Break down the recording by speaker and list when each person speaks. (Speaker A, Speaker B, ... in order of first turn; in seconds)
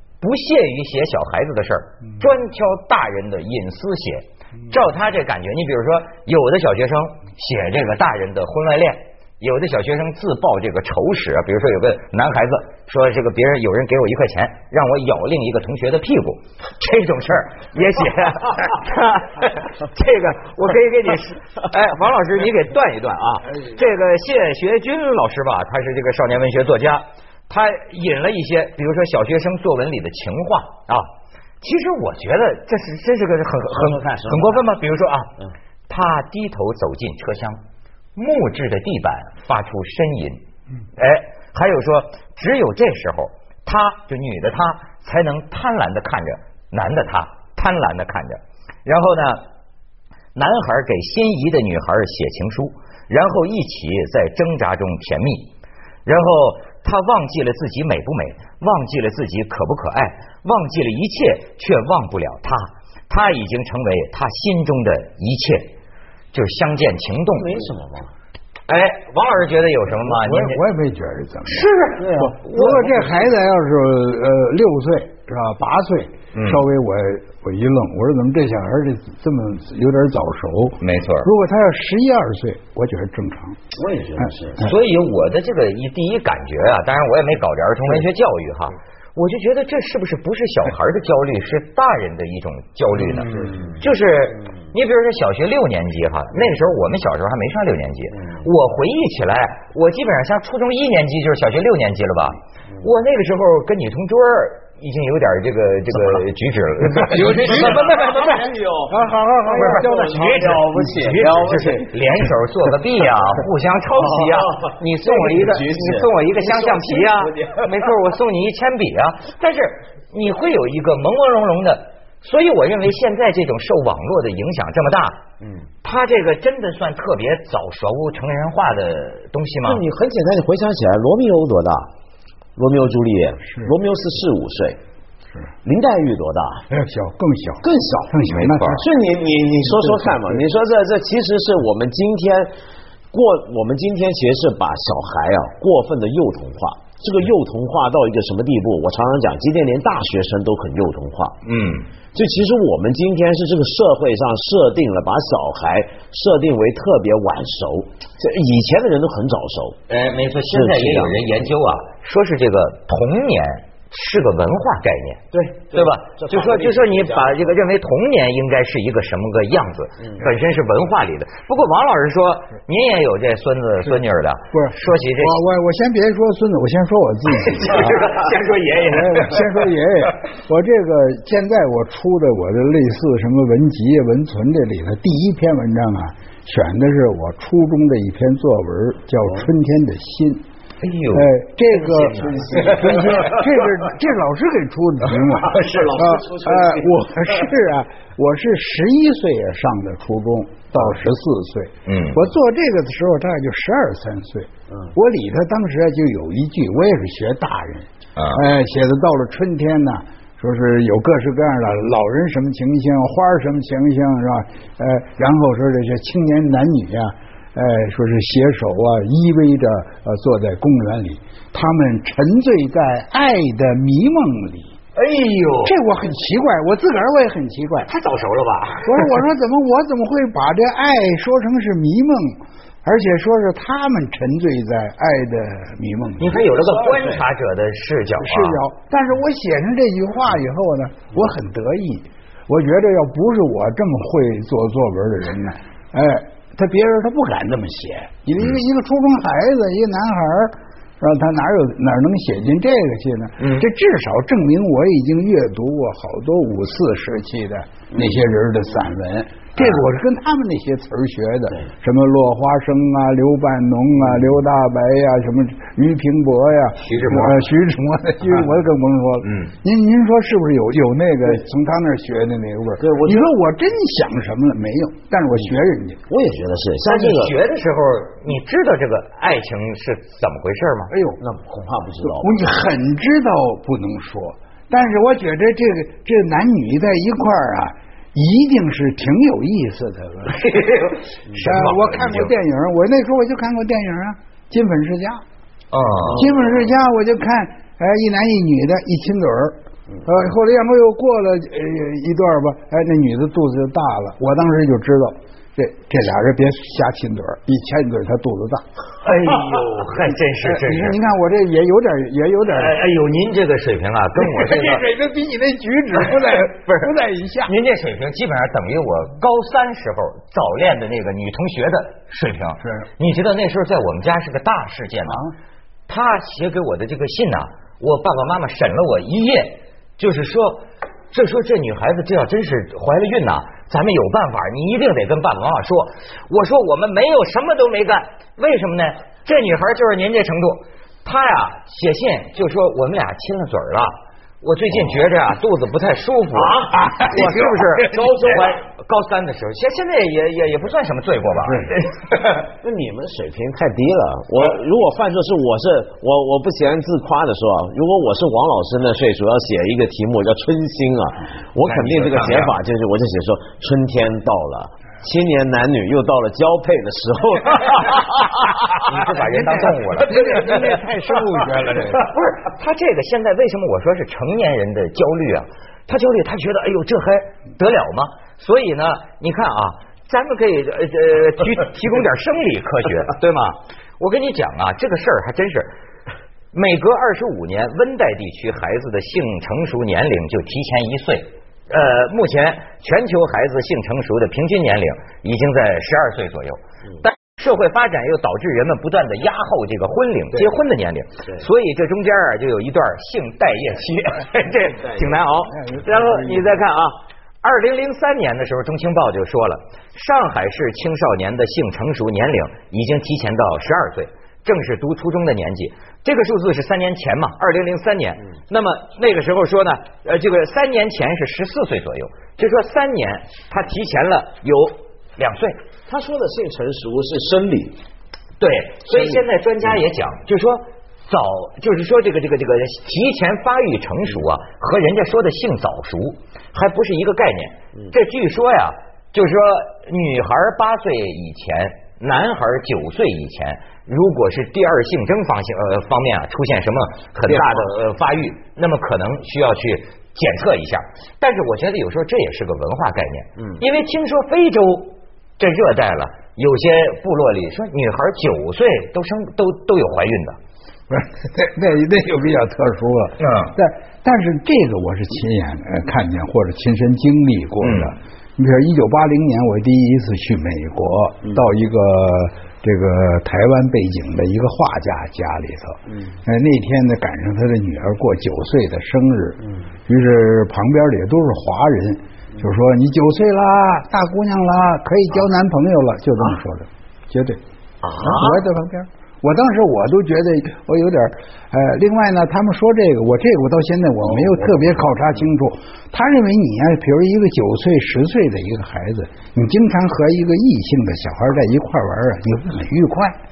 Speaker A: 0.2-31.1, 31.6-35.3, 35.9-37.6, 38.1-40.4, 41.0-49.4, 50.4-55.5, 56.0-65.7, 66.3-67.7, 68.7-70.6, 71.5-72.9, 76.3-76.7, 80.8-81.3, 84.6-108.5, 109.5-125.2, 125.8-129.8, 138.3-138.8, 151.4-151.9, 159.9-175.4, 177.4-179.4, 190.8-191.3, 192.2-193.0, 201.9-202.2, 208.2-208.4, 224.9-225.8, 227.9-229.1, 236.2-238.6, 253.4-253.7, 266.8-267.5, 269.2-269.5, 276.9-280.9, 290.3-292.3, 295.7-296.3, 309.0-311.0, 312.5-314.8, 316.2-316.9, 317.4-325.2, 325.9-352.4, 361.7-362.6, 368.7-370.7, 371.8-385.7, 386.5-425.6, 428.4-460.4, 463.2-463.6, 467.6-467.9, 487.8-488.4
Speaker B: 33.7-34.6, 67.3-68.1, 72.0-72.9, 83.8-84.7, 93.1-93.8, 98.2-98.5, 107.0-111.9, 114.0-117.7, 125.4-125.7, 129.7-131.9, 132.6-134.8, 135.7-136.7, 137.6-138.2, 138.7-142.5, 143.1-151.4, 152.1-159.8, 160.5-161.5, 165.3-167.5, 191.8-193.4, 195.2-196.9, 236.6-237.2, 272.8-273.3, 276.1-277.4, 281.2-282.4, 296.1-296.6, 346.3-348.6, 352.6-368.3, 425.9-427.8, 447.3-447.6, 475.9-476.2, 494.2-494.6
Speaker C: 70.0-83.6, 107.1-108.2, 108.9-110.9, 136.7-138.9, 139.7-140.4, 174.5-178.0, 178.9-190.4, 191.1-224.8, 225.7-227.9, 228.8-236.4, 238.2-276.0, 280.9-281.2, 282.0-290.7, 291.4-295.2, 296.1-308.7, 310.4-312.8, 314.2-317.5, 325.1-325.3, 346.8-347.1, 369.4-372.0, 405.5-406.6, 460.9-487.4, 488.0-503.2